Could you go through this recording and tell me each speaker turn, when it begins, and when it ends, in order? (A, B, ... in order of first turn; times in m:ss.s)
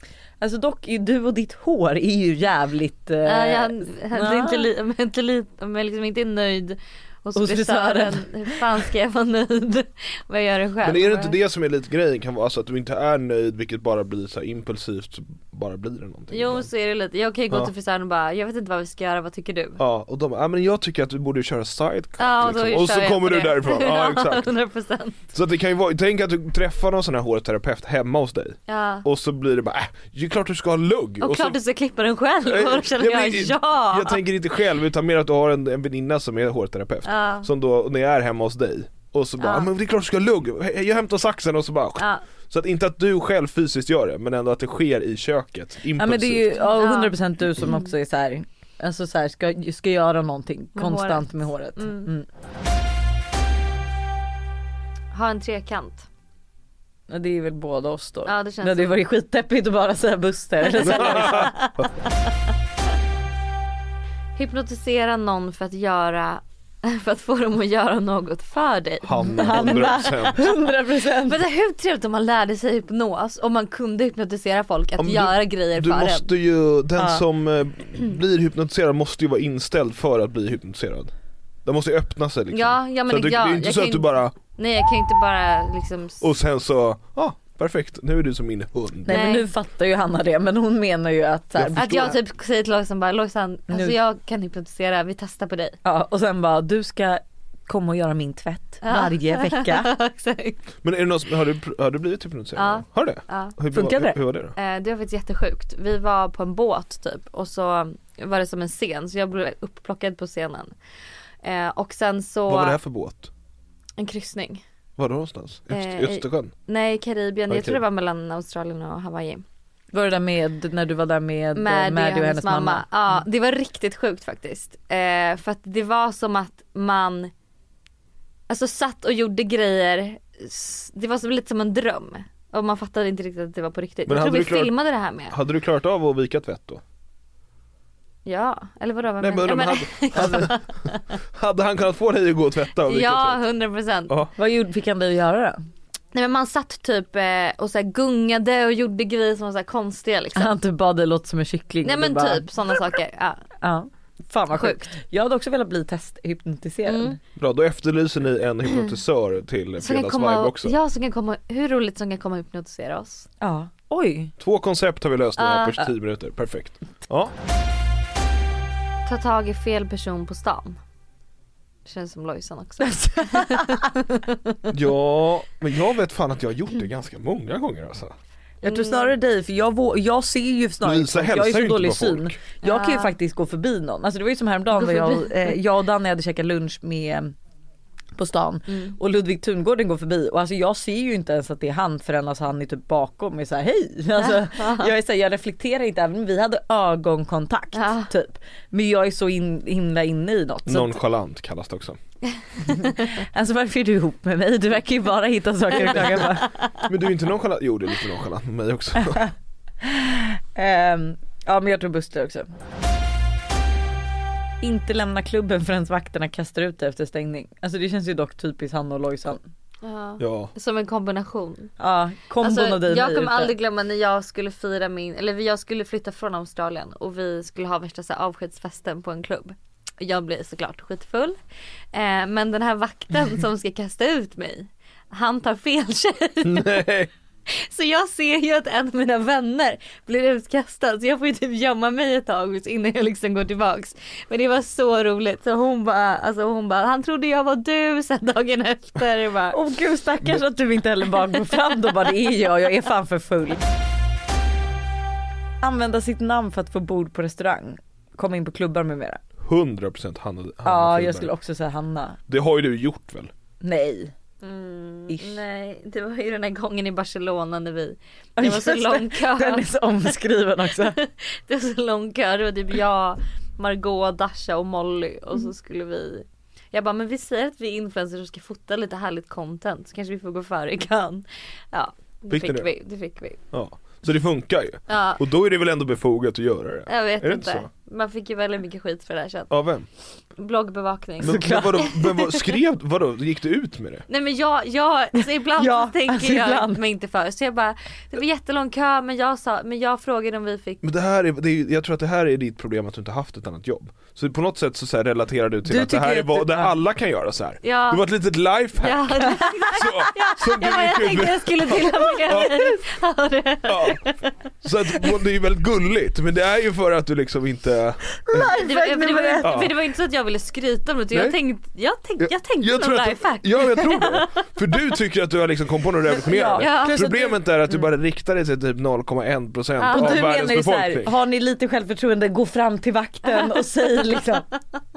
0:00.4-0:04.7 A
0:03.3-0:11.4 B
0:07.4-0:08.6 A
0:10.8-0:16.7 C
0:16.3-0:19.8 B
0:19.8-0:24.5 C
0:22.2-0:25.2 B
0:25.3-0:31.6 C
0:28.7-0:29.1 B
0:31.2-0:34.2 B
0:32.4-0:46.6 C
0:37.1-0:37.5 B
0:39.4-0:39.7 B
0:42.0-0:42.2 B
0:46.0-0:52.3 A
0:46.6-0:47.9 B
0:50.8-0:52.1 B
0:55.1-0:56.1 B
0:57.1-1:01.5 A
0:58.3-0:59.0 B
1:00.8-1:01.8 B
1:00.8-1:01.9 C
1:04.4-1:10.1 B
1:09.0-1:10.4 C
1:09.4-1:11.4 A
1:11.3-1:16.3 B
1:15.0-1:21.1 C
1:17.0-1:17.2 A
1:21.6-1:24.3 C
1:22.5-1:26.3 B
1:26.2-1:29.2 C
1:29.1-1:32.2 A
1:29.1-1:29.5 B
1:31.6-1:32.2 C
1:31.8-1:35.8 B
1:33.7-1:34.0 A
1:35.8-1:39.9 A
1:38.8-1:40.6 B
1:40.8-1:44.5 C
1:42.6-1:43.6 B
1:43.7-1:44.2 A
1:44.6-1:50.7 B
1:51.4-1:52.8 B
1:52.5-1:53.3 C
1:54.0-1:54.6 B
1:55.0-1:56.5 C
1:55.7-1:59.4 B
1:57.5-1:57.8 C
1:59.9-2:02.8 A
2:01.6-2:07.3 B
2:08.5-2:15.4 B
2:14.1-2:14.7 C
2:15.3-2:16.8 C
2:18.2-2:21.0 B
2:19.2-2:20.6 C
2:21.3-2:23.4 C
2:22.8-2:24.2 B
2:24.4-2:25.7 A
2:26.1-2:30.6 B
2:30.4-2:32.5 A
2:31.8-2:33.5 B
2:33.6-2:37.2 A
2:34.5-2:34.9 B
2:36.9-2:37.2 B
2:37.4-2:40.8 C
2:39.8-2:43.3 B
2:43.4-2:44.3 A
2:44.4-2:47.3 C
2:45.4-2:45.9 B
2:49.1-2:50.8 B
2:51.8-2:54.6 B
2:52.9-2:53.9 A
2:54.7-2:58.2 C
2:58.6-3:07.3 A
2:58.6-2:59.1 B
3:00.8-3:02.4 C
3:02.6-3:03.1 B
3:04.8-3:05.5 B
3:08.2-3:21.0 A
3:08.7-3:09.0 B
3:14.2-3:14.9 B
3:17.7-3:18.1 B
3:20.7-3:22.0 C
3:22.8-3:26.5 A
3:25.8-3:26.5 B
3:25.8-3:26.2 C
3:26.9-3:29.3 C
3:29.8-3:32.5 A
3:34.6-3:39.4 A
3:39.8-3:41.7 B
3:40.2-3:40.5 C
3:41.8-3:43.5 A
3:42.4-3:51.4 B
3:51.9-3:56.8 B
3:56.4-3:57.1 C
3:57.5-4:09.6 B
4:09.5-4:13.6 A
4:15.6-4:19.2 A
4:19.4-4:21.3 C
4:20.6-4:22.2 A
4:22.3-4:23.3 C
4:23.6-4:24.1 A
4:24.4-4:29.7 B
4:25.1-4:25.4 A
4:28.4-4:31.0 A
4:30.8-4:43.4 B
4:42.3-4:42.7 C
4:43.5-4:47.7 C
4:44.9-4:45.2 B
4:46.9-4:49.5 B
4:49.5-4:49.9 C
4:50.4-4:52.4 B
4:51.2-4:54.1 C
4:51.2-4:51.9 A
4:54.1-5:00.8 B
4:55.6-4:56.8 A
5:00.8-5:12.6 C
5:05.7-5:06.7 A
5:07.6-5:08.0 B
5:08.8-5:14.3 B
5:13.7-5:14.0 C
5:14.6-5:18.5 C
5:18.2-5:19.6 A
5:18.5-5:24.4 B
5:19.4-5:19.7 C
5:21.1-5:21.4 C
5:22.2-5:31.1 C
5:26.3-5:27.3 A
5:26.6-5:27.2 B
5:29.8-5:30.3 B
5:29.9-5:34.5 A